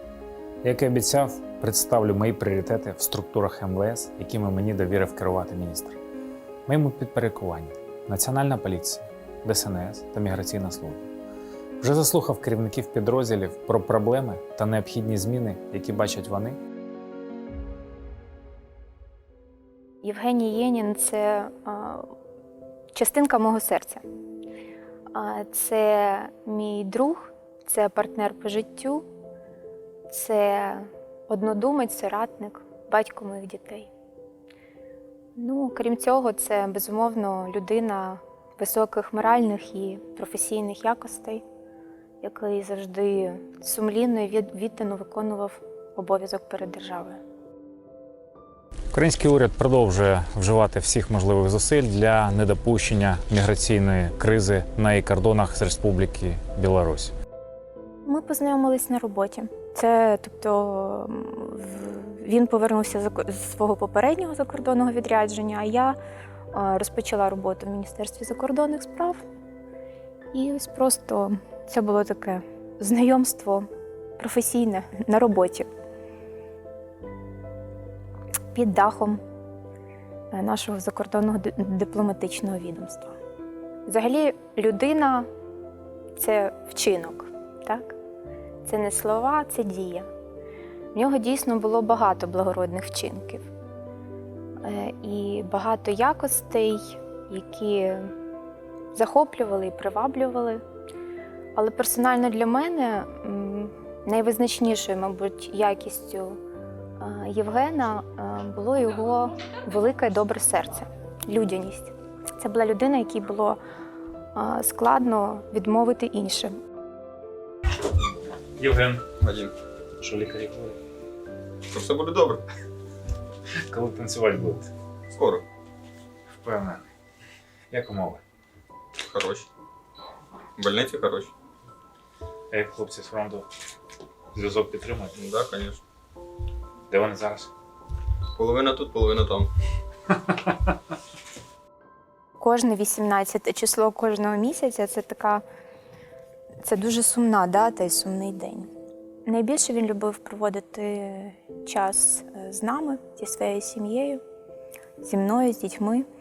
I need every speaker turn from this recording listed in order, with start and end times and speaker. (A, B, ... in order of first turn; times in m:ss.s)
0:00.6-0:06.0 A
0:06.7-0:11.1 A
0:11.8-0:16.6 A
0:20.0-0:22.1 B
0:22.9-0:24.0 B
0:25.1-0:29.0 B
0:30.1-0:33.9 B
0:35.4-0:41.4 B
0:42.2-0:47.2 B
0:48.9-0:57.1 A
0:58.0-1:06.0 B
1:06.5-1:09.2 B
1:10.3-1:13.7 B
1:14.2-1:15.7 B
1:18.5-1:19.2 B
1:20.3-1:23.2 B
1:23.9-1:25.3 B
1:26.1-1:28.0 B
1:28.6-1:30.1 B
1:30.9-1:33.5 B
1:34.6-1:38.1 B
1:38.9-1:40.6 B
1:41.6-1:46.4 B
1:47.0-1:53.6 B
1:54.3-1:56.5 B
1:58.6-1:59.1 A
1:59.2-1:59.5 C
2:00.0-2:00.8 A
2:01.7-2:02.4 C
2:03.7-2:04.7 A
2:05.1-2:05.4 C
2:06.3-2:06.9 A
2:07.7-2:08.2 A
2:09.1-2:09.5 C
2:10.6-2:11.3 C
2:12.5-2:13.5 A
2:14.3-2:15.1 A
2:15.2-2:15.8 C
2:16.9-2:17.5 A
2:18.4-2:19.5 C
2:22.4-2:25.4 B
2:26.6-2:28.7 B
2:29.2-2:34.2 B
2:35.0-2:36.1 B